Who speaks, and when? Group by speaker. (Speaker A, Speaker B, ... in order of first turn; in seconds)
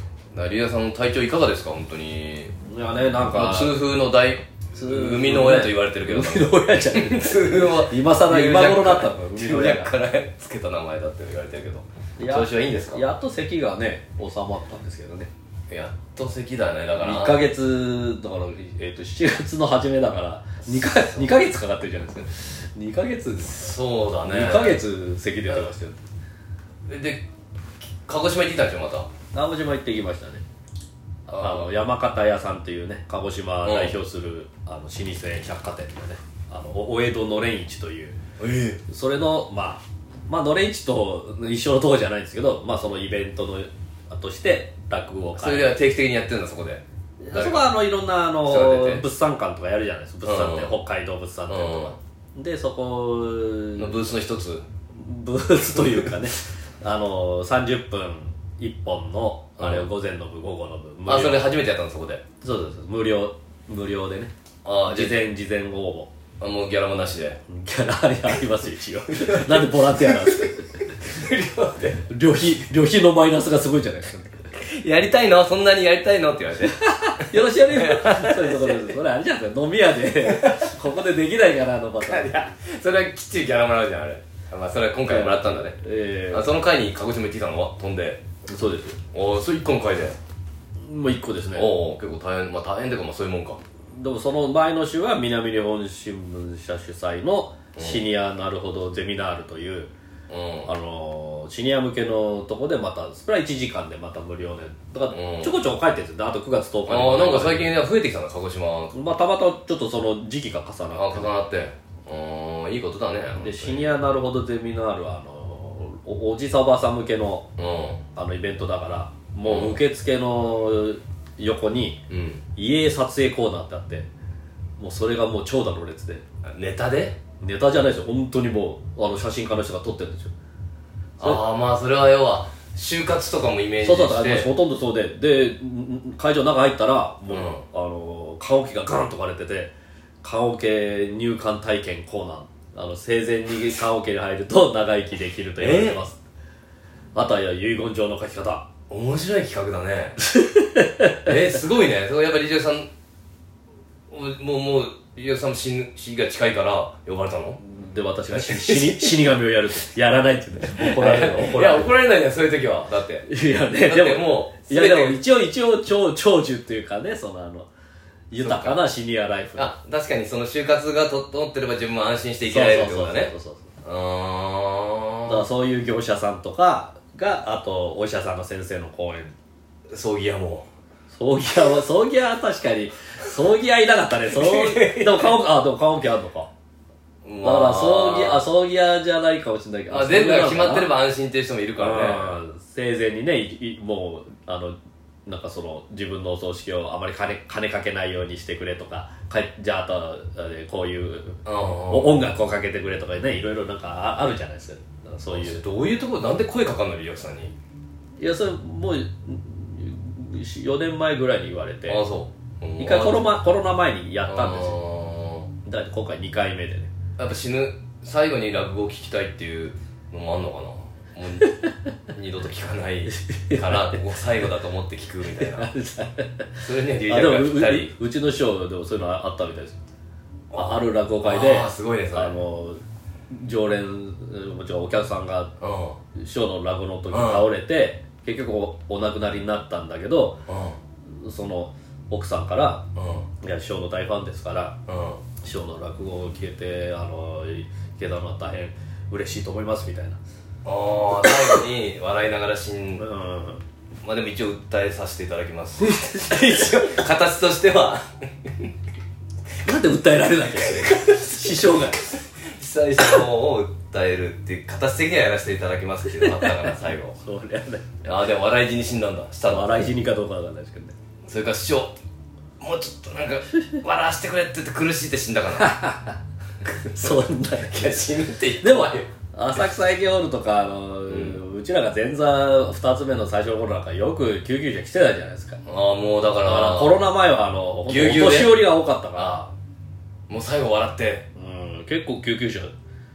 Speaker A: 0.3-2.5, 3.3-13.0, 15.7-17.4, 20.6-21.4, 23.4-24.8, 26.9-27.2, 28.0-29.1, 31.3-31.7, 33.6-33.9, 38.4-38.8, 45.4-47.8, 48.4-49.0, 50.2-50.8, 51.5-52.0, 53.8-54.6, 59.6-59.9, 61.1-62.2, 64.6-65.3, 66.4-67.4, 69.1-70.5, 71.0-72.0, 74.6-78.9, 80.2-80.7, 82.1-88.2, 89.1-90.2, 91.5-93.6, 97.8-98.0, 100.3-100.7, 105.1-105.6, 106.9-108.9, 110.9-113.9, 117.6-118.0, 119.4-119.8, 122.1-122.4, 126.5-127.2, 131.2-134.5, 137.3-137.6, 145.6-146.0, 148.9-150.2, 151.2-152.9, 154.1-157.6, 158.3-159.2, 160.8-165.2, 168.4-168.8, 169.6-173.3, 173.8-175.4, 179.9-180.7, 184.3-185.4, 187.2-188.4, 189.9-192.3, 201.4-202.2, 205.3-207.6, 211.9-213.3, 214.2-215.5, 217.2-221.6, 222.1-225.7, 226.6-227.9, 230.5-232.4, 235.6-236.0, 237.1-237.5, 240.5-240.8, 242.9-243.2, 244.9-245.2, 250.7-253.0, 254.0-258.7, 260.5-267.2, 268.0-269.7, 271.2-272.0, 272.6-275.7, 276.8-279.6, 281.1-281.4, 285.6-287.1, 287.9-289.4, 290.3-291.3
Speaker B: 2.7-3.8, 4.8-9.9, 12.2-15.3, 17.0-23.7, 24.2-26.0, 29.3-30.4, 31.4-38.2, 38.9-45.8, 47.2-53.9, 55.0-61.5, 62.4-64.3, 64.9-66.1, 67.5-70.8, 72.1-74.4, 76.8-82.5, 85.1-86.5, 88.5-89.0, 90.8-91.7, 93.9-99.9, 100.7-107.7, 108.9-111.3, 113.4-117.5, 118.2-122.0, 122.6-124.1, 124.8-126.2, 127.4-130.3, 133.8-139.7, 140.2-146.2, 147.2-148.7, 150.3-151.3, 157.6-161.9, 163.3-167.7, 168.3-169.7, 172.4-173.7, 175.3-179.3, 181.1-186.5, 187.4-190.9, 191.8-205.6, 208.2-212.0, 212.8-214.8, 215.7-216.9, 223.2-224.0, 225.4-226.5, 227.1-229.8, 230.5-235.5, 236.2-240.4, 241.2-242.8, 243.4-244.8, 245.4-250.2, 251.2-251.6, 253.0-253.6, 255.8-256.8, 259.6-262.0, 266.1-268.0, 269.5-270.9, 275.6-276.2, 276.9-278.1, 278.6-285.6, 286.4-289.5, 291.4-292.7